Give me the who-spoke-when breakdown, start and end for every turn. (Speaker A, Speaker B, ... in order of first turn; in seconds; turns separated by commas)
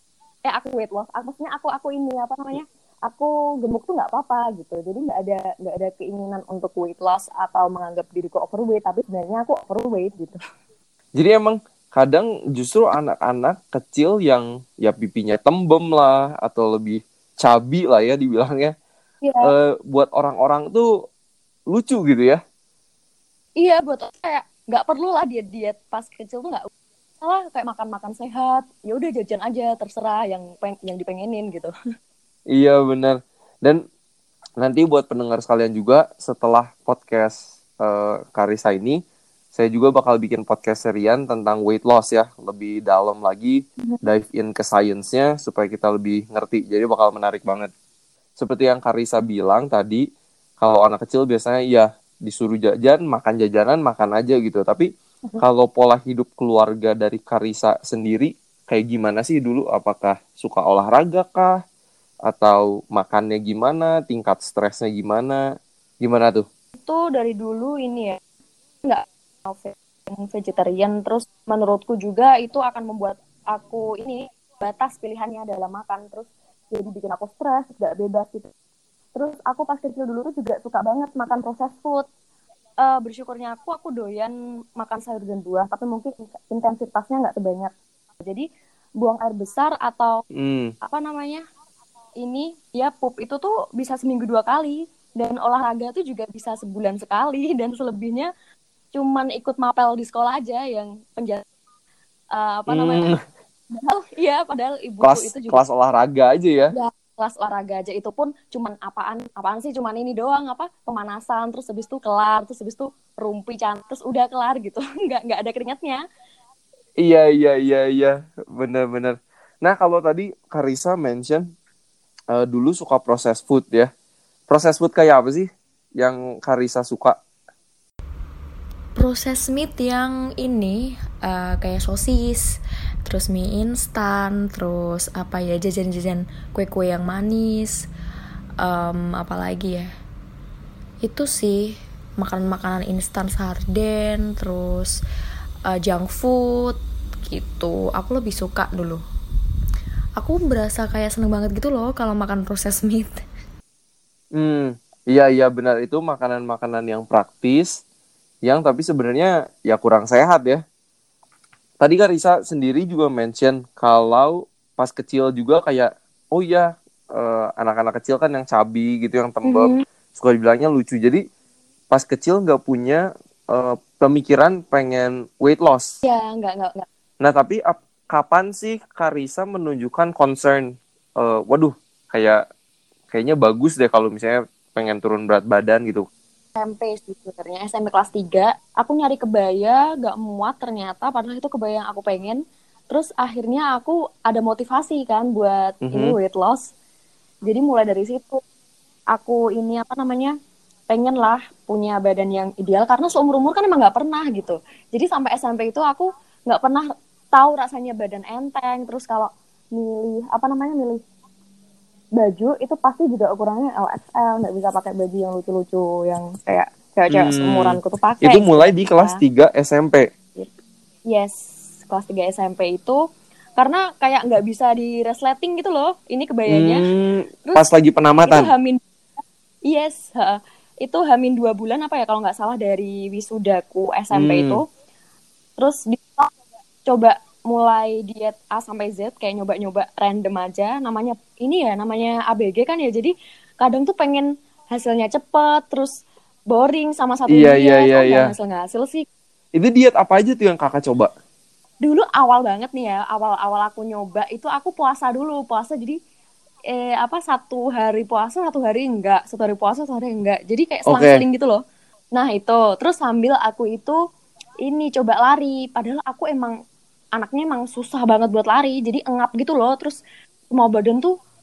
Speaker A: 0.5-10.4, Speaker B: 11.2-18.7, Speaker A: 19.2-19.5, Speaker B: 19.4-20.9, Speaker B: 21.7-22.4, Speaker A: 23.6-26.7, Speaker A: 27.2-31.7, Speaker B: 32.5-33.8, Speaker B: 34.6-39.0, Speaker B: 39.5-47.7, Speaker B: 48.4-50.1, Speaker B: 50.6-61.6, Speaker B: 62.3-65.5, Speaker B: 66.0-66.5, Speaker A: 66.8-68.2, Speaker A: 68.8-78.5, Speaker A: 79.2-82.1, Speaker A: 82.8-88.5, Speaker A: 89.0-90.2, Speaker B: 90.3-90.7, Speaker A: 90.8-91.4, Speaker A: 92.2-98.3, Speaker A: 98.9-101.4, Speaker A: 102.3-103.1, Speaker B: 102.7-103.2, Speaker A: 103.7-105.6, Speaker B: 105.0-106.7, Speaker A: 106.7-116.0, Speaker B: 117.0-121.5, Speaker B: 122.3-123.9, Speaker B: 124.5-127.2, Speaker C: 129.0-137.9, Speaker C: 138.6-139.9, Speaker C: 141.0-145.0, Speaker C: 145.7-149.0, Speaker C: 150.2-153.2, Speaker B: 154.3-157.8, Speaker B: 158.4-160.6, Speaker B: 161.8-171.2, Speaker A: 169.4-169.8, Speaker B: 171.9-176.0, Speaker A: 176.0-176.9, Speaker B: 177.2-182.4, Speaker B: 183.1-186.1, Speaker A: 186.6-196.7, Speaker B: 195.9-196.2, Speaker A: 197.5-198.4, Speaker A: 199.1-200.3, Speaker A: 200.9-211.0, Speaker A: 212.2-219.2, Speaker B: 217.1-220.1, Speaker A: 221.1-223.0, Speaker A: 223.6-226.9, Speaker B: 226.5-228.5, Speaker A: 228.2-228.8, Speaker A: 229.7-234.7, Speaker B: 234.1-234.6, Speaker A: 235.6-236.3, Speaker A: 236.8-249.1, Speaker B: 247.3-248.3, Speaker B: 249.6-251.1, Speaker A: 251.8-256.0, Speaker A: 256.7-261.6, Speaker B: 260.9-261.2, Speaker A: 262.1-264.0, Speaker A: 264.6-266.6, Speaker A: 267.2-271.1